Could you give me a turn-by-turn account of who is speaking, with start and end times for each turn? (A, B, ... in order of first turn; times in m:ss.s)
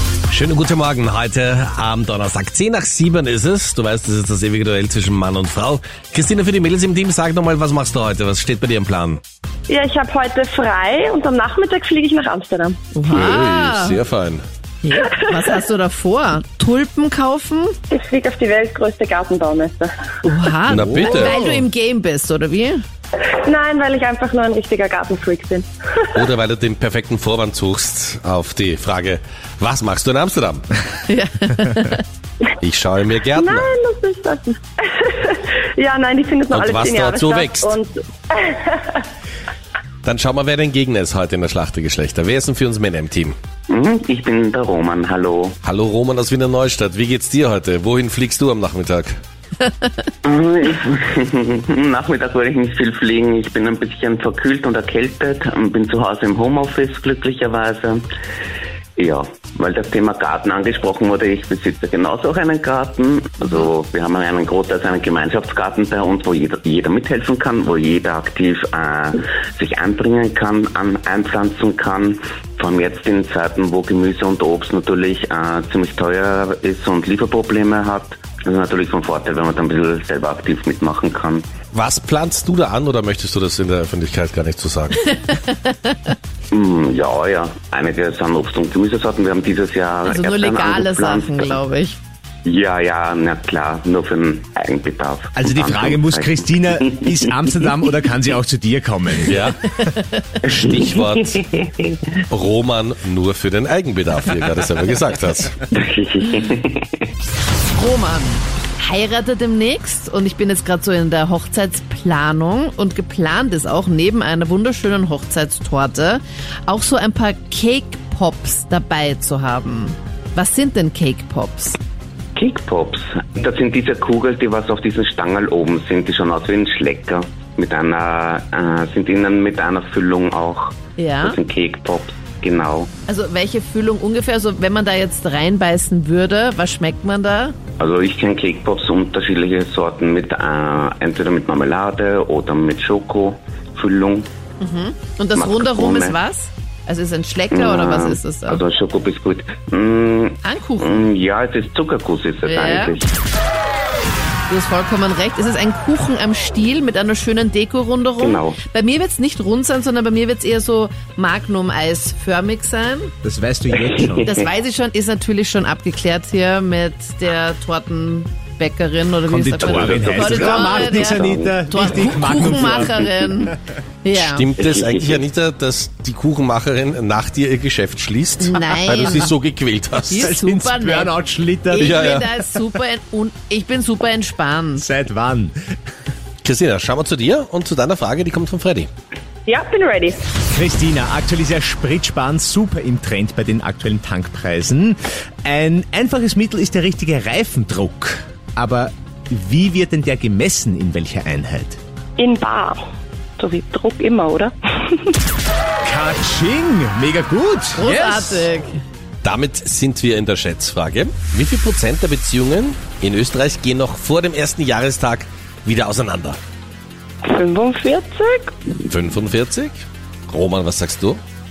0:00.3-0:09.2 A
0:09.7-0:12.9 B
0:12.9-0:14.0 C
0:13.1-0:14.4 A
0:14.8-0:17.7 C
0:15.0-0:15.6 B
0:17.9-0:19.9 B
0:20.2-0:22.8 C
0:20.7-0:21.4 A
0:21.1-0:21.6 B
0:23.4-0:26.2 B
0:26.1-0:30.6 A
0:31.1-0:32.0 C
0:32.6-0:33.7 A
0:33.3-0:39.0 B
0:36.5-0:37.8 A
0:40.0-0:43.3 A
0:43.7-0:45.6 D
0:45.6-0:49.1 A
0:50.2-0:58.0 D
0:59.0-1:21.4 D
1:21.7-1:25.1 A
1:25.3-1:25.9 C
1:26.5-1:31.6 D
1:30.0-1:32.0 C
1:32.4-1:37.4 D
1:35.4-1:39.4 E
1:39.3-1:39.6 A
1:39.8-1:40.2 C
1:40.4-1:41.9 D
1:40.5-1:41.4 A
1:42.3-1:45.6 A
1:45.7-1:47.0 D
1:47.7-2:01.8 C
2:02.4-2:12.9 D
2:11.0-2:11.4 C
2:13.1-2:17.6 C
2:17.8-2:24.3 D
2:24.6-2:28.6 C
2:25.3-2:26.2 D
2:27.5-2:33.1 D
2:30.4-2:31.0 C
2:32.4-2:32.9 C
2:34.5-2:43.1 C
2:38.2-2:38.6 D
2:43.2-2:44.3 E
2:43.8-2:44.4 D
2:44.2-2:54.5 C
2:49.2-2:53.5 E
2:49.6-2:51.5 D
2:54.1-3:00.3 A
2:54.6-2:55.2 D
2:58.4-2:59.3 C
3:00.1-3:01.1 C
3:00.1-3:02.6 E
3:01.7-3:04.9 C
3:01.8-3:02.2 A
3:04.8-3:05.7 E
3:06.4-3:08.9 A
3:09.5-3:10.2 B
3:10.5-3:21.8 E
3:22.2-3:22.8 B
3:23.4-3:25.1 B
3:25.8-3:28.5 E
3:27.8-3:28.8 C
3:29.2-3:36.4 A
3:37.2-3:38.5 B
3:38.8-3:41.2 A